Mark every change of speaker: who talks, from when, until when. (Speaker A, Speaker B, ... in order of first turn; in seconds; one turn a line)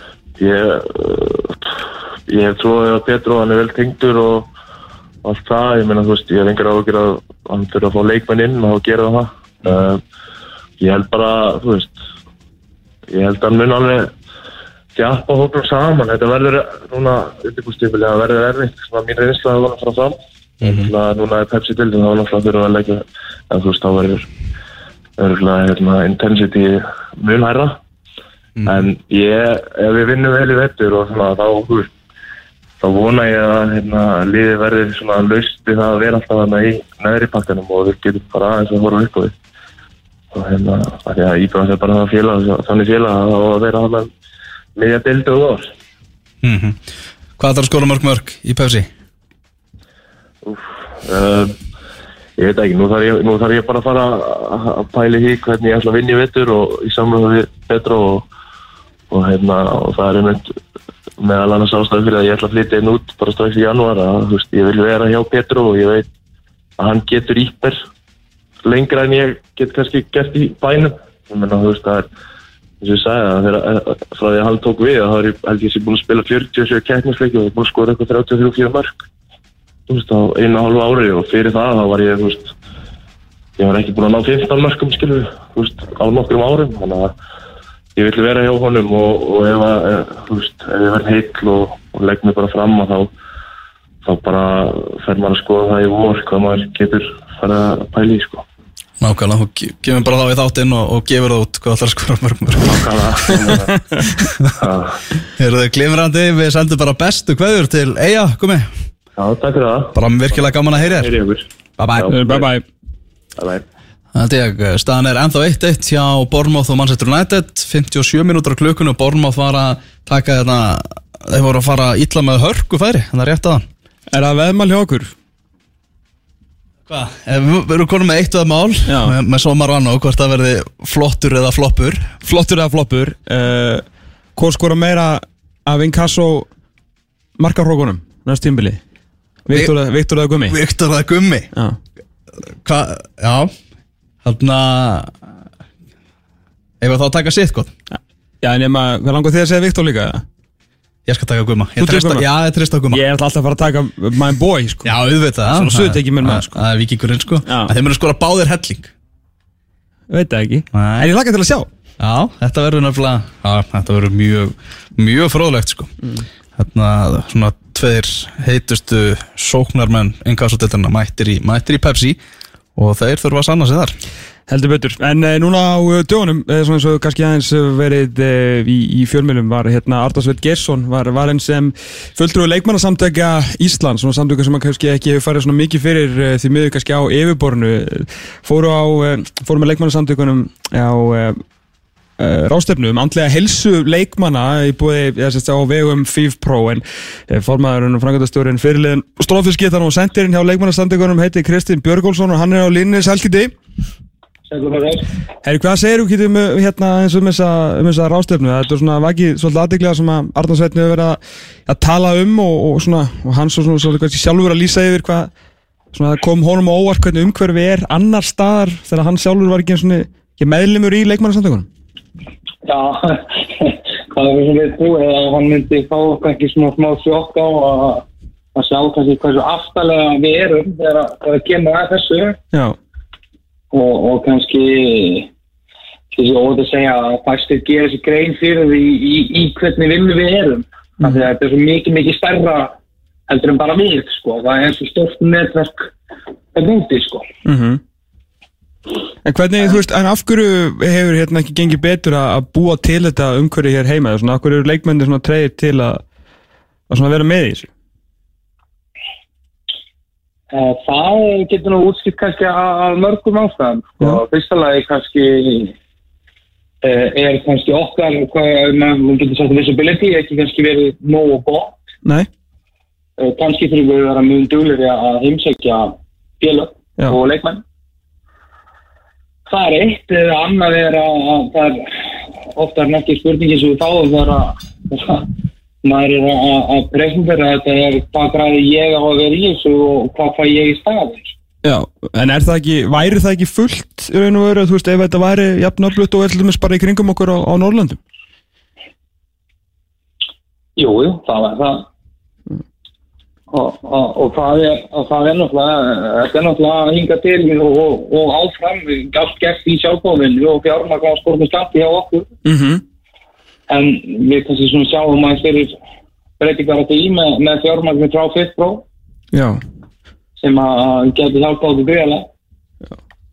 Speaker A: 0.4-1.8
Speaker A: 2.3-4.5
Speaker A: 5.2-10.0
Speaker A: 10.8-11.9
Speaker A: 13.1-14.1
Speaker A: 14.9-24.3
Speaker B: 20.6-20.9
Speaker A: 25.2-27.8
Speaker B: 28.6-28.9
Speaker A: 28.6-31.9
Speaker A: 32.8-39.3
Speaker A: 40.3-44.1
Speaker A: 44.8-45.7
Speaker B: 46.4-46.8
Speaker B: 47.4-48.9
Speaker A: 50.4-51.5
Speaker A: 52.4-58.3
Speaker A: 59.1-60.5
Speaker A: 61.2-66.1
Speaker A: 66.8-67.8
Speaker A: 68.6-72.1
Speaker A: 72.8-79.0
Speaker A: 79.9-82.5
Speaker A: 83.6-87.1
Speaker A: 88.0-93.1
Speaker A: 94.0-98.4
Speaker B: 99.0-102.9
Speaker A: 102.6-103.8
Speaker A: 104.6-105.0
Speaker B: 105.4-108.7
Speaker A: 109.2-112.5
Speaker B: 109.9-111.1
Speaker B: 111.8-112.1
Speaker C: 112.1-112.6
Speaker A: 113.4-113.6
Speaker B: 114.1-123.7
Speaker C: 124.1-125.1
Speaker B: 126.9-132.1
Speaker C: 128.9-129.2
Speaker C: 132.2-133.8
Speaker C: 134.4-136.5
Speaker C: 137.4-138.8
Speaker C: 139.5-140.6
Speaker B: 140.5-141.5
Speaker C: 141.5-141.8
Speaker B: 142.5-143.5
Speaker B: 144.2-145.1
Speaker B: 146.8-147.7
Speaker C: 148.4-150.2
Speaker B: 151.1-153.0
Speaker C: 151.8-152.2
Speaker C: 152.9-154.9
Speaker B: 154.8-158.9
Speaker C: 155.5-156.6
Speaker C: 157.5-157.7
Speaker C: 160.1-161.7
Speaker B: 160.7-161.1
Speaker B: 162.0-165.9
Speaker B: 166.6-172.2
Speaker B: 172.8-174.0
Speaker C: 174.5-191.4
Speaker C: 192.2-203.5
Speaker D: 204.5-205.1
Speaker C: 205.4-215.3
Speaker C: 215.9-221.7
Speaker D: 222.6-228.0
Speaker D: 228.6-232.4
Speaker D: 233.7-235.3
Speaker D: 236.1-242.7
Speaker C: 241.0-241.3
Speaker D: 243.3-245.9
Speaker D: 246.5-247.3
Speaker C: 247.4-247.8
Speaker C: 249.2-256.0
Speaker C: 256.9-257.7
Speaker D: 260.5-265.8
Speaker D: 266.8-271.7
Speaker D: 273.2-277.6
Speaker D: 279.5-285.3
Speaker D: 285.8-291.3
Speaker C: 291.6-298.0
Speaker D: 300.8-301.9
Speaker D: 303.5-312.3
Speaker C: 312.4-312.8
Speaker D: 313.7-315.7
Speaker D: 316.4-318.8
Speaker C: 319.3-319.6
Speaker D: 320.4-322.3